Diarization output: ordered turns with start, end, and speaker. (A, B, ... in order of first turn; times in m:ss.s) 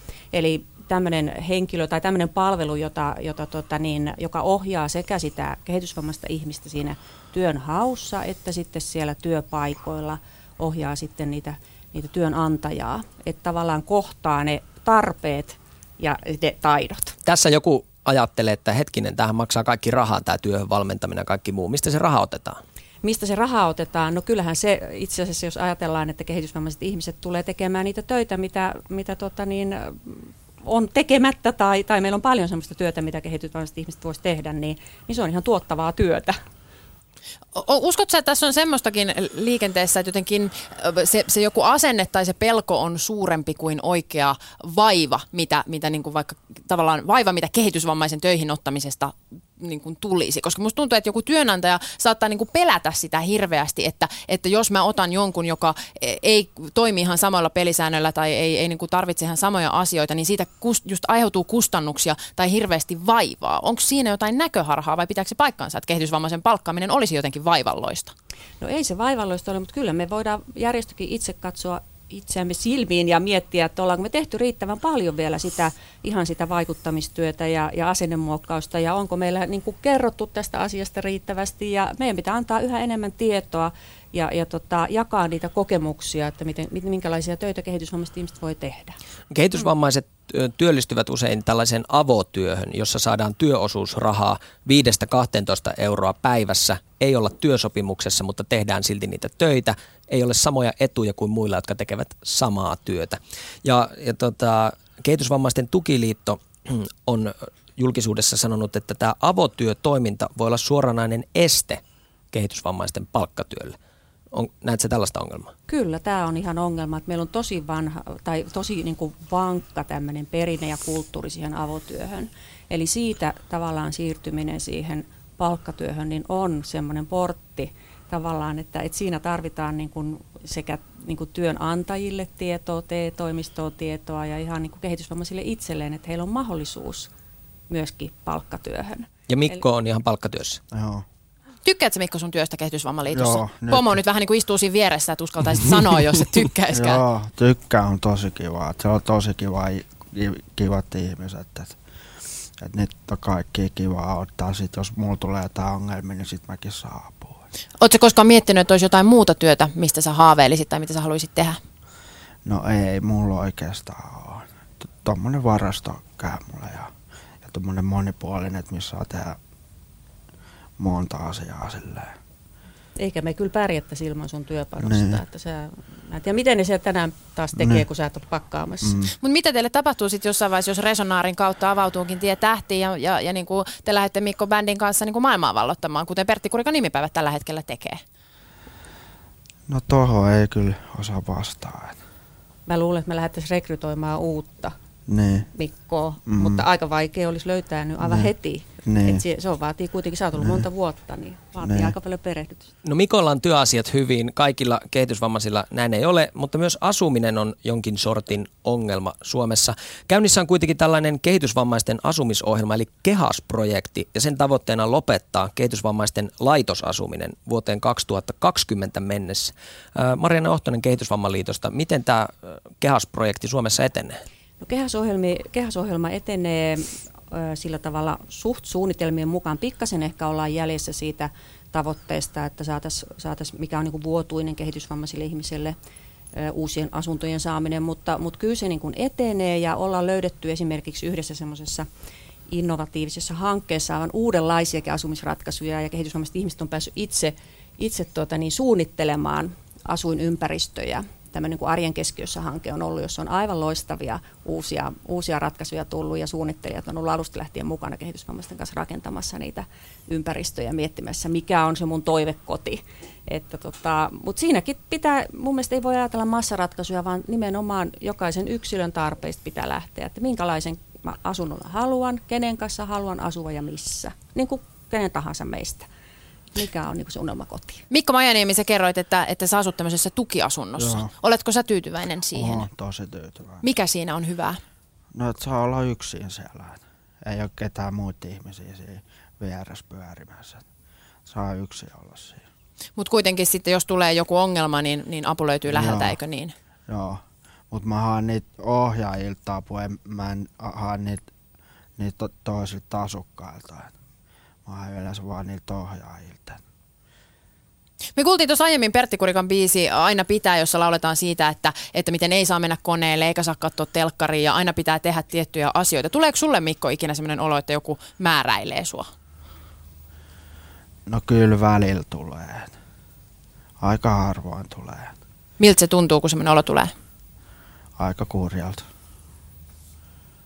0:00.3-0:17.2 A
0:17.2-0:22.6 B
0:23.0-0:36.4 A
0:37.6-1:08.1 C
1:08.6-1:29.0 A
1:29.3-1:51.8 B
1:52.3-1:53.8 B
1:54.3-1:55.5 B
1:55.7-2:17.1 A
2:17.7-2:19.1 A
2:19.3-2:20.6 B
2:20.7-2:21.0 D
2:21.6-2:27.0 C
2:23.1-2:24.0 D
2:26.7-2:31.8 D
2:32.6-2:37.4 D
2:37.8-2:41.6 C
2:42.4-2:46.9 D
2:47.4-2:49.4 D
2:50.8-2:52.2 D
2:53.0-2:59.0 A
2:54.8-2:55.2 D
2:57.6-2:57.9 D
2:58.8-2:59.1 D
2:59.2-3:08.0 C
3:09.7-3:12.0 D
3:12.7-3:14.8 A
3:15.1-3:15.5 D
3:15.5-3:22.7 A
3:16.3-3:16.7 D
3:18.0-3:18.3 D
3:18.8-3:19.2 D
3:20.4-3:20.6 D
3:21.6-3:22.0 D
3:22.8-3:44.2 B
3:44.6-3:55.8 A
3:56.4-4:01.9 A
4:02.5-4:35.9 A
4:36.6-4:37.8 A
4:37.9-4:42.7 C
4:40.8-4:41.1 D
4:42.3-4:43.6 D
4:43.6-4:44.6 C
4:45.1-4:50.6 D
4:51.3-4:52.4 D
4:53.0-4:56.5 C
4:55.7-4:56.2 D
4:56.9-5:01.3 D
5:02.0-5:03.9 D
5:04.7-5:06.6 D
5:08.2-5:19.1 C
5:21.1-5:22.7 D
5:23.8-5:25.2 D
5:25.6-5:26.9 C
5:28.0-5:28.9 D